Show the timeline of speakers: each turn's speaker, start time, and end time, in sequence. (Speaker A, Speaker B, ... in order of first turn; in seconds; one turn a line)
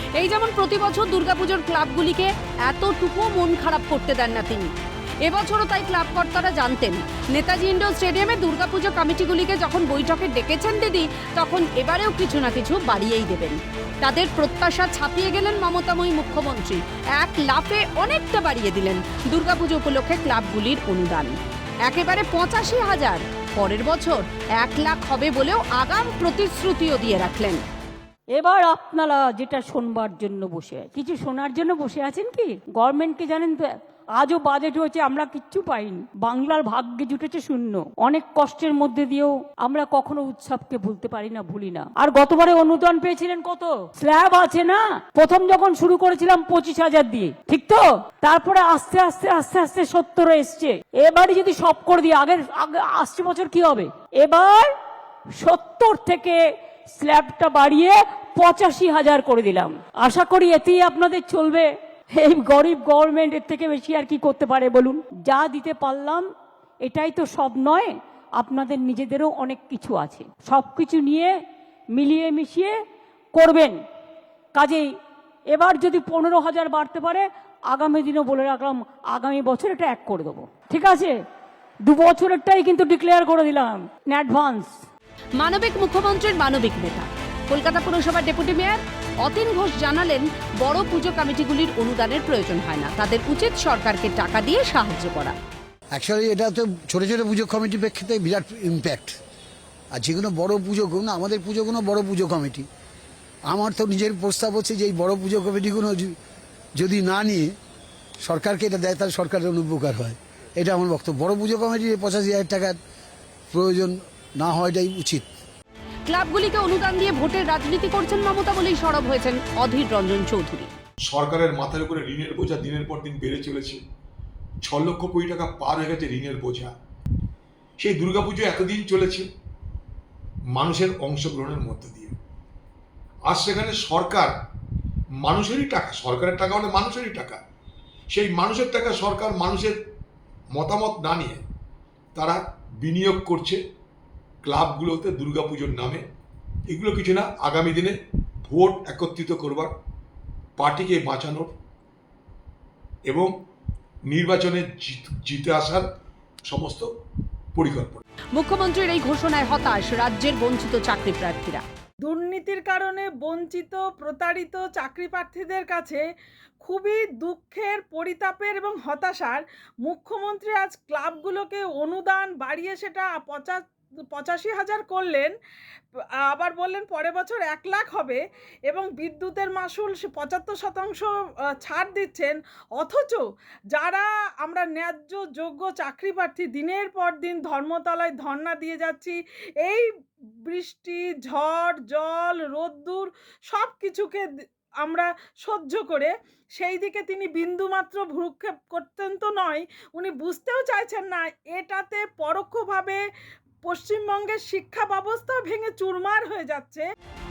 Speaker A: 0.1-27.6
Speaker B: 28.3-54.7
Speaker B: 55.4-66.2
Speaker B: 66.8-71.4
Speaker B: 71.9-72.8
Speaker B: 73.3-73.8
Speaker B: 74.5-74.9
Speaker B: 75.5-81.1
Speaker B: 81.8-84.8
Speaker A: 85.3-95.3
Speaker C: 95.9-99.2
Speaker C: 99.9-102.7
Speaker C: 103.5-106.1
Speaker C: 106.8-107.5
Speaker C: 108.2-112.8
Speaker C: 113.5-115.2
Speaker A: 116.1-120.7
Speaker D: 121.0-123.8
Speaker D: 124.6-126.7
Speaker D: 127.8-129.3
Speaker D: 130.5-132.1
Speaker D: 133.3-134.3
Speaker D: 135.2-137.4
Speaker D: 138.1-139.8
Speaker D: 140.5-141.4
Speaker D: 142.1-143.6
Speaker D: 144.4-146.1
Speaker D: 146.7-147.9
Speaker D: 148.4-149.7
Speaker D: 150.6-151.5
Speaker D: 153.1-153.3
Speaker D: 154.1-155.8
Speaker D: 156.5-156.9
Speaker D: 157.5-158.0
Speaker A: 158.3-161.6
Speaker E: 162.0-166.0
Speaker E: 166.6-175.3
Speaker E: 176.0-189.9
Speaker E: 190.4-203.0
Speaker E: 203.6-206.8